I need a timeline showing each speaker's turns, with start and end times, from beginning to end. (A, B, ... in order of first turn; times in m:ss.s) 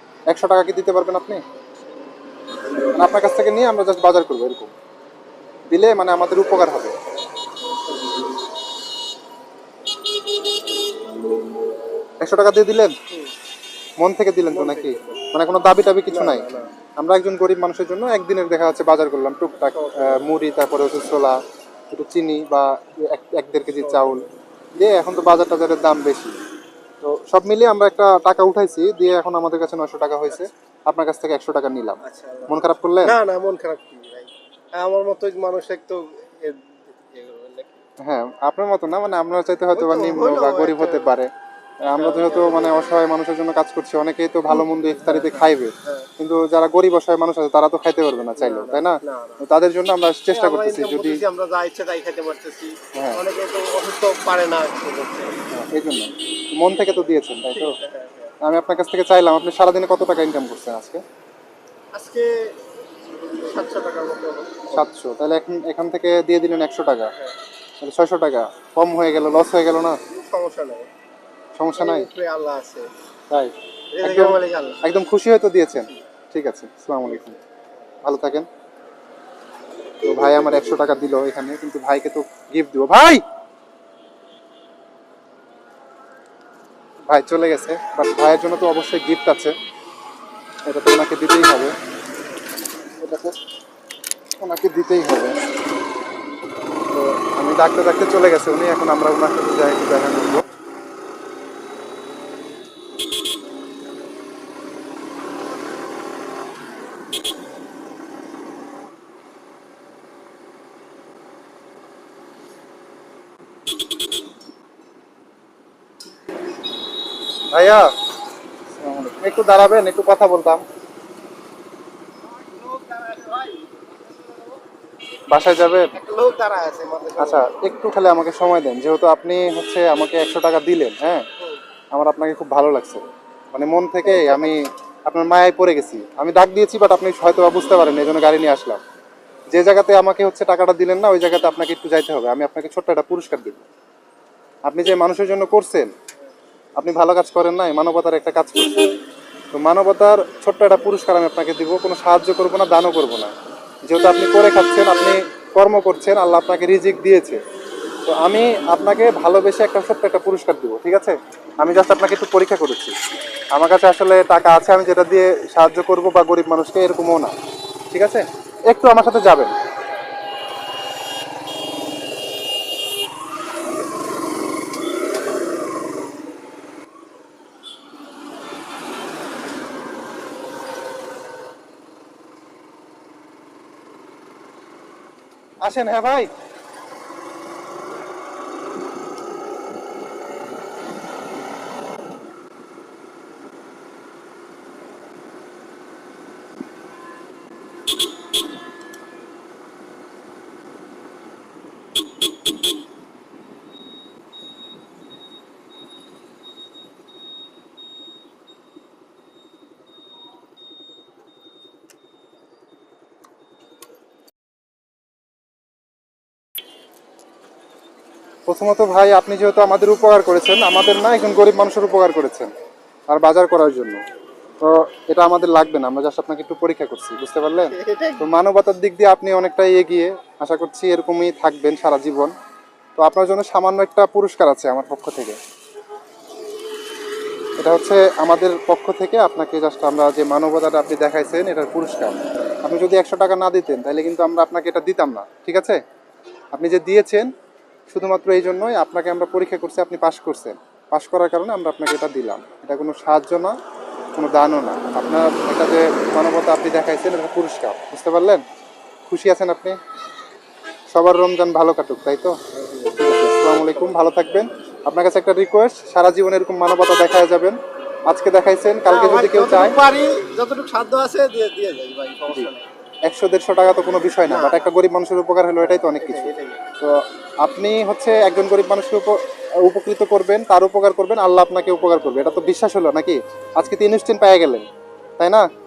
0:00.3-0:01.4 A
0:02.9-0:04.7 A
0:05.7-0:06.9 A
0:12.2-0:12.9 A
0:14.0-0:16.5 A
0:14.5-0:15.2 B
0:16.1-0:16.7 B
0:17.0-0:21.4 A
0:19.7-0:20.2 B
0:21.9-0:26.3 A
0:23.8-0:24.3 B
0:27.0-0:33.2 A
0:32.0-0:37.8 B
0:38.0-0:41.3 A
0:39.7-0:41.2 B
0:41.8-0:51.2 A
0:41.9-0:42.9 B
0:44.8-0:46.1 B
0:48.4-0:49.4 B
0:50.3-0:55.4 B
0:53.0-0:53.2 A
0:55.5-0:57.7 A
0:57.5-0:58.3 B
0:58.4-1:01.0 A
1:01.9-1:02.6 B
1:03.3-1:04.8 B
1:04.7-1:07.1 A
1:07.8-1:10.0 A
1:10.1-1:10.9 B
1:11.6-1:12.1 A
1:11.8-1:12.9 B
1:13.3-1:17.4 A
1:13.9-1:14.8 B
1:18.0-1:18.5 A
1:20.0-1:23.2 A
1:27.1-1:29.5 A
1:30.7-1:31.7 A
1:33.0-1:33.4 A
1:34.4-1:35.4 A
1:36.9-1:40.5 A
1:57.5-1:57.9 A
1:58.8-2:00.6 A
2:02.3-2:04.5 B
2:05.3-2:05.9 A
2:06.0-2:07.5 B
2:07.2-2:11.3 A
2:11.9-2:18.8 A
2:14.1-2:14.5 B
2:19.5-2:23.7 A
2:24.7-2:25.9 A
2:26.8-2:28.9 A
2:29.5-2:33.4 A
2:33.9-2:37.4 A
2:38.1-2:43.0 A
2:43.6-2:47.3 A
2:47.9-2:49.5 A
3:05.6-3:06.3 A
3:38.5-3:42.5 A
3:43.1-3:44.0 A
3:44.6-3:52.3 A
3:47.7-3:48.2 B
3:53.0-3:55.4 A
3:57.6-4:05.8 A
4:06.5-4:07.3 A
4:07.9-4:13.6 A
4:14.2-4:18.4 A
4:19.1-4:19.8 A
4:20.9-4:22.4 A
4:23.0-4:27.6 A
4:23.6-4:24.1 B
4:28.1-4:29.8 A
4:28.9-4:32.7 B
4:33.1-4:36.3 A
4:34.3-4:34.6 B
4:35.6-4:36.6 B
4:36.8-4:44.7 A
4:45.2-4:45.4 A